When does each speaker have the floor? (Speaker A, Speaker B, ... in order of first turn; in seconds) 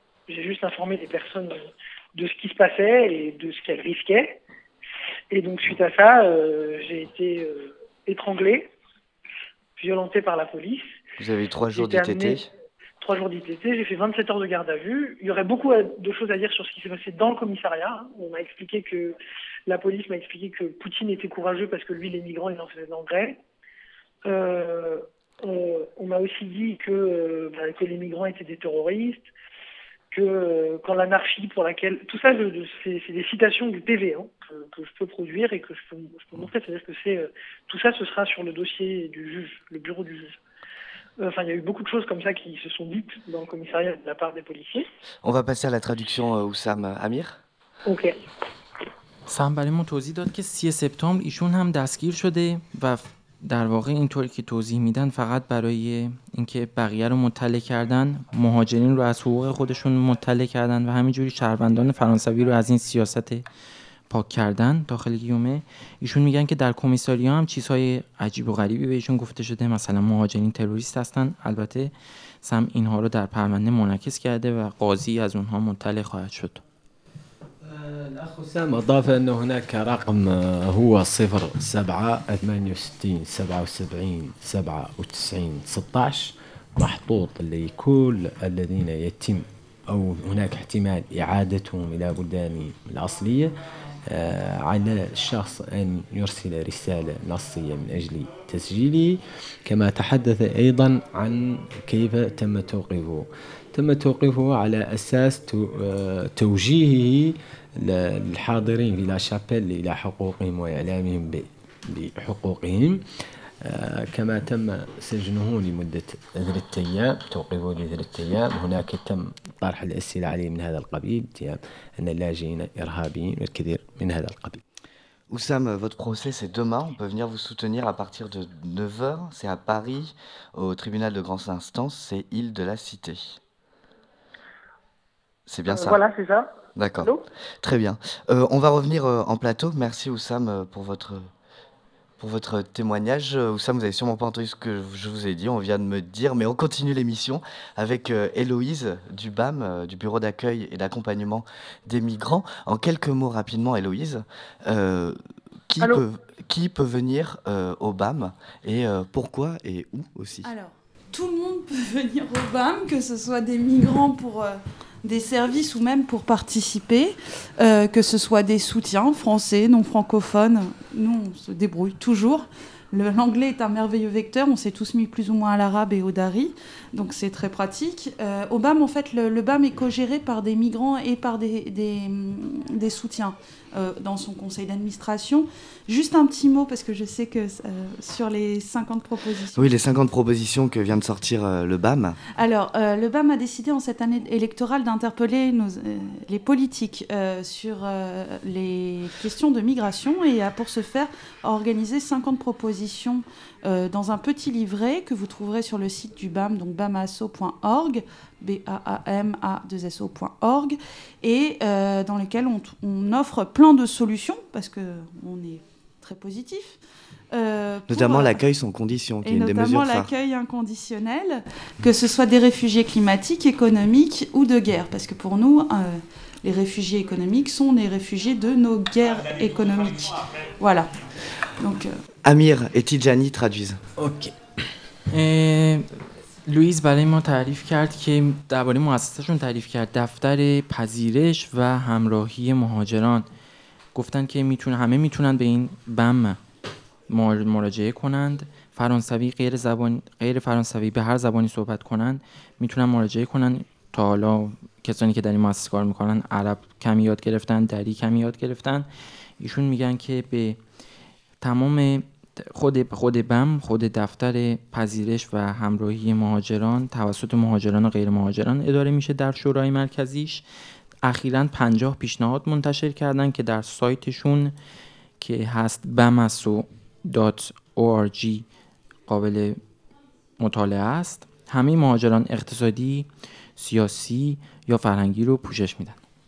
Speaker A: 0.3-1.6, 2.1-4.4, 5.3-8.7, 9.8-10.9, 11.7-12.5, 13.0-19.1, 19.7-23.4, 24.2-29.3, 30.1-40.4, 41.2-44.9, 47.9-48.2, 135.7-137.2
Speaker B: 11.2-12.5, 45.2-47.4, 125.3-133.4, 135.5-136.0, 136.8-141.3, 142.2-155.2, 155.7-160.5, 189.6-192.2, 217.9-220.1, 232.2-233.8
Speaker C: 49.3-63.5, 64.1-71.9, 72.4-76.6, 235.1-243.3, 243.9-246.4, 247.1-258.9, 259.4-260.6, 261.4-270.4, 271.0-274.6, 275.2-278.4, 279.1-279.6, 280.4-286.0
Speaker D: 77.6-93.5, 94.1-113.0, 113.6-124.6, 234.0-234.4
Speaker E: 160.4-189.7, 192.3-216.8, 217.3-218.4, 219.2-230.9, 231.6-232.0